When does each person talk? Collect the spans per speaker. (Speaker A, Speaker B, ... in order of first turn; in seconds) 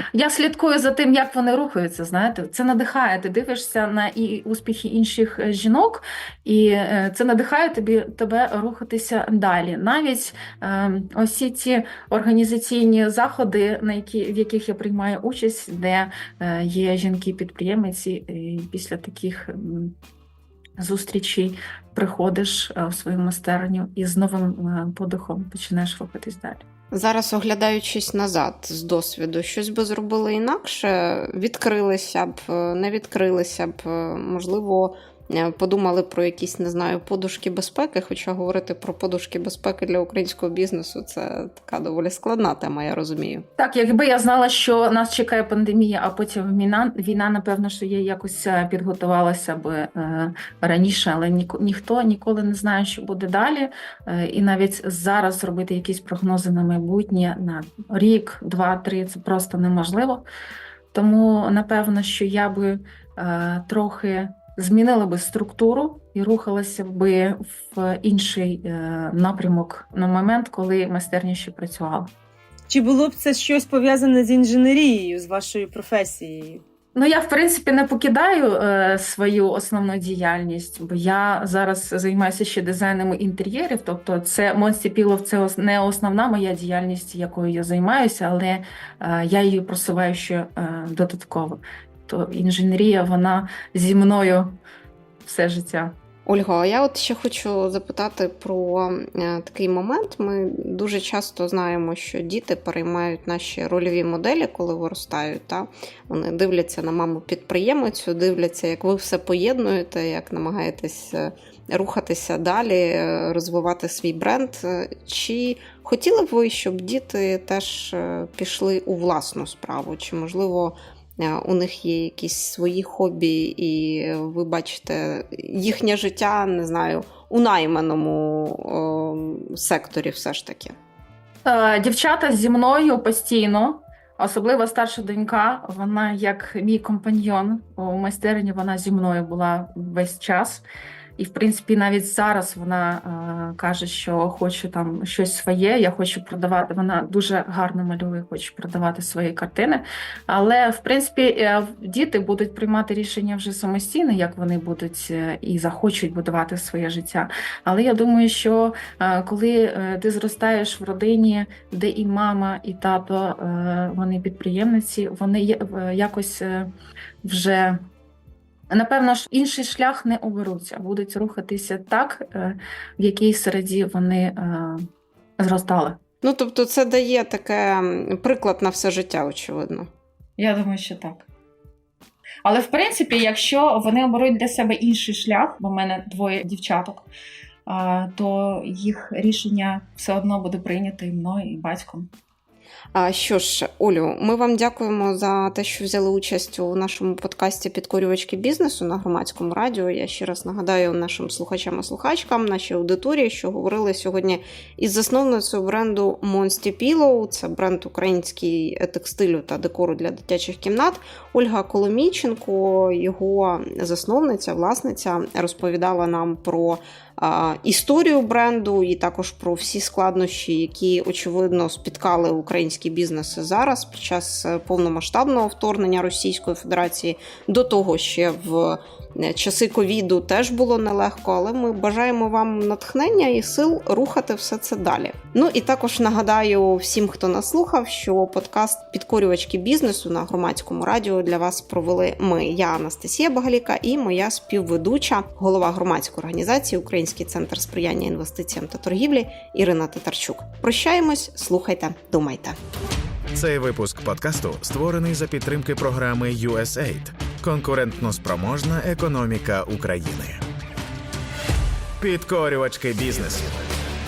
Speaker A: 0.1-19.9, 20.8-26.6, 43.6-60.2, 60.9-72.1, 76.9-94.6, 95.2-95.9, 131.4-140.6, 141.2-166.7, 167.2-167.8, 168.7-176.0, 180.4-181.3, 182.4-187.1, 187.7-192.1
Speaker B: 26.9-43.4, 96.3-130.8, 176.2-179.9, 192.9-252.6
Speaker C: 72.7-76.6
Speaker D: 253.3-260.4, 262.0-263.6